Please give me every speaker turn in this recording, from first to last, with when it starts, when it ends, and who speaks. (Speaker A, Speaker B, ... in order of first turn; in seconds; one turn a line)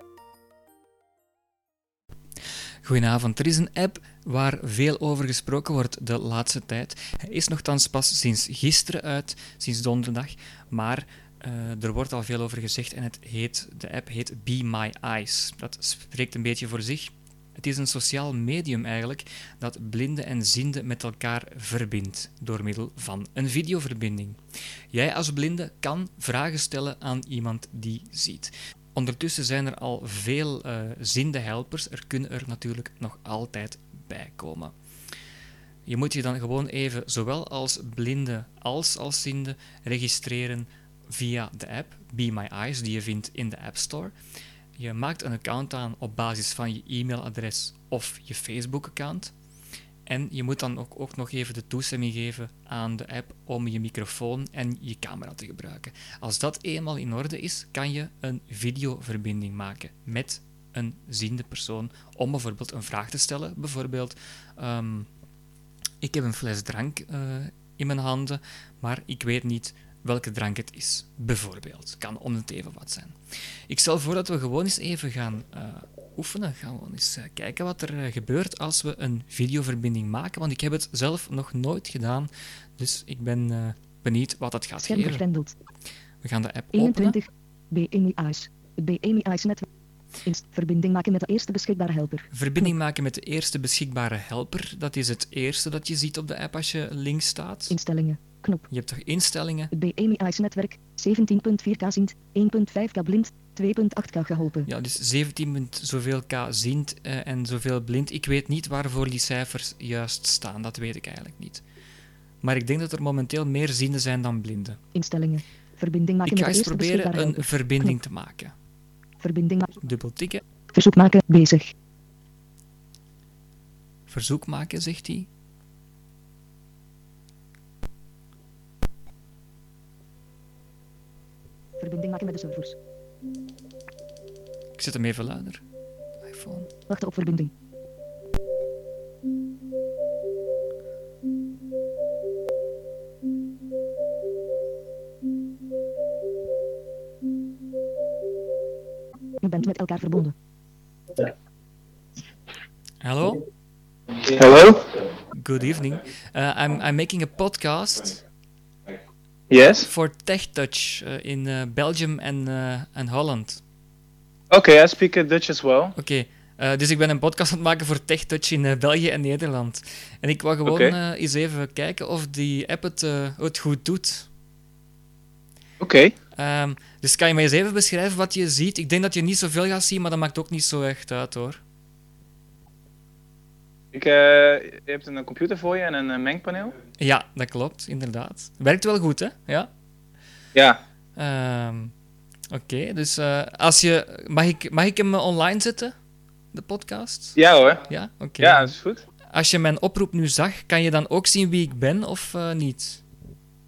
Speaker A: 2.8-24.4
Speaker A: 24.9-34.7
Speaker A: 35.9-44.1
Speaker A: 44.8-49.3
Speaker A: 50.0-65.1
Speaker A: 66.0-73.2
Speaker A: 73.7-85.2
Speaker B: 84.8-85.5
Speaker A: 86.2-87.2
Speaker B: 86.7-89.7
Speaker B: 90.2-92.7
Speaker A: 92.3-97.8
Speaker B: 97.7-98.7
Speaker A: 98.7-99.7
Speaker B: 99.7-104.7
Speaker A: 104.7-111.6
Speaker A: 112.4-114.8
Speaker B: 114.9-118.0
Speaker A: 116.2-118.5
Speaker B: 119.2-119.8
Speaker A: 119.8-120.4
Speaker B: 120.7-121.7
Speaker A: 124.1-125.3
Speaker B: 131.8-132.8
Speaker A: 134.8-135.6
Speaker A: 136.2-136.7
Speaker B: 136.9-137.5
Speaker B: 149.4-150.3
Speaker A: 153.0-153.4
Speaker C: 154.3-154.8
Speaker A: 155.3-158.2
Speaker C: 159.5-159.9
Speaker A: 159.8-163.6
Speaker C: 164.5-165.9
Speaker A: 165.9-174.3
Speaker C: 170.7-170.9
Speaker C: 175.8-176.1
Speaker A: 176.3-181.6
Speaker C: 183.9-186.7
Speaker A: 187.0-189.7
Speaker C: 190.5-190.8
Speaker A: 191.2-191.9
Speaker A: 192.5-195.9
Speaker A: 196.5-198.7
Speaker C: 197.3-197.8
Speaker C: 198.4-199.0
Speaker A: 199.3-203.0